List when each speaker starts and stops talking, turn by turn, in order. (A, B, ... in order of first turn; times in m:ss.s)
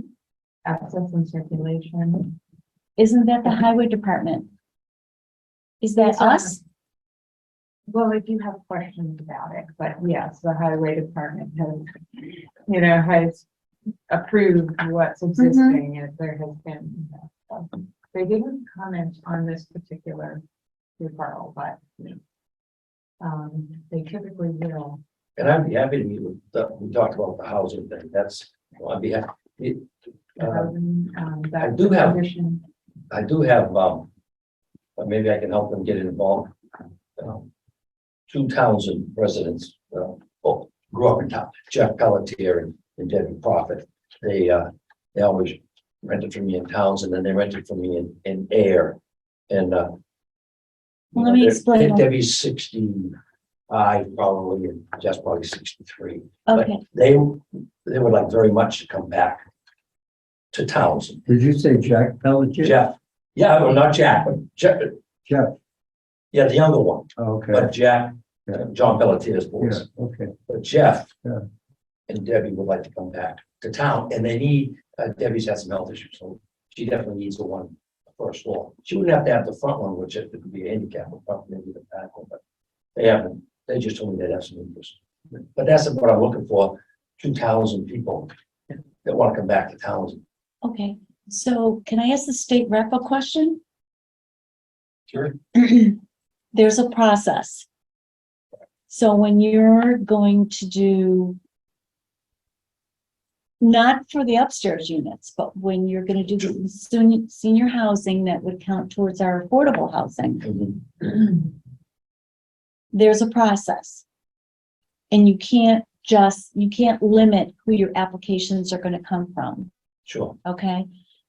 0:00.6-0:02.4 A
0:03.0-0:04.5 B
0:05.8-0:06.6 B
0:06.0-0:06.6 A
0:07.9-0:13.4 A
0:14.1-0:20.4 A
0:15.4-0:15.8 B
0:21.0-0:21.8 A
0:23.2-0:25.0 A
0:25.4-0:30.7 C
0:30.4-0:32.6 A
0:31.6-0:32.2 C
0:33.1-0:34.1 C
0:35.0-0:36.5 C
0:37.2-0:37.5 C
0:38.3-0:49.0 C
0:49.5-0:50.0 C
0:51.2-0:52.1 B
0:51.2-0:53.2 C
0:53.7-0:59.4 C
0:56.5-0:56.8 B
1:00.5-1:01.3 C
1:01.3-1:02.8 D
1:02.6-1:05.0 C
1:05.3-1:05.5 D
1:06.3-1:09.8 C
1:07.2-1:07.7 D
1:09.6-1:10.3 D
1:10.5-1:11.1 C
1:12.1-1:22.4 C
1:23.0-1:28.3 C
1:29.0-1:30.2 C
1:30.6-1:33.6 B
1:35.1-1:35.4 C
1:35.5-1:36.0 B
1:36.5-1:37.7 B
1:38.9-1:41.4 B
1:43.6-1:50.4 B
1:50.4-1:51.3 C
1:52.9-1:54.0 B
1:55.1-1:59.7 B
2:00.1-2:00.4 C
2:00.4-2:00.9 B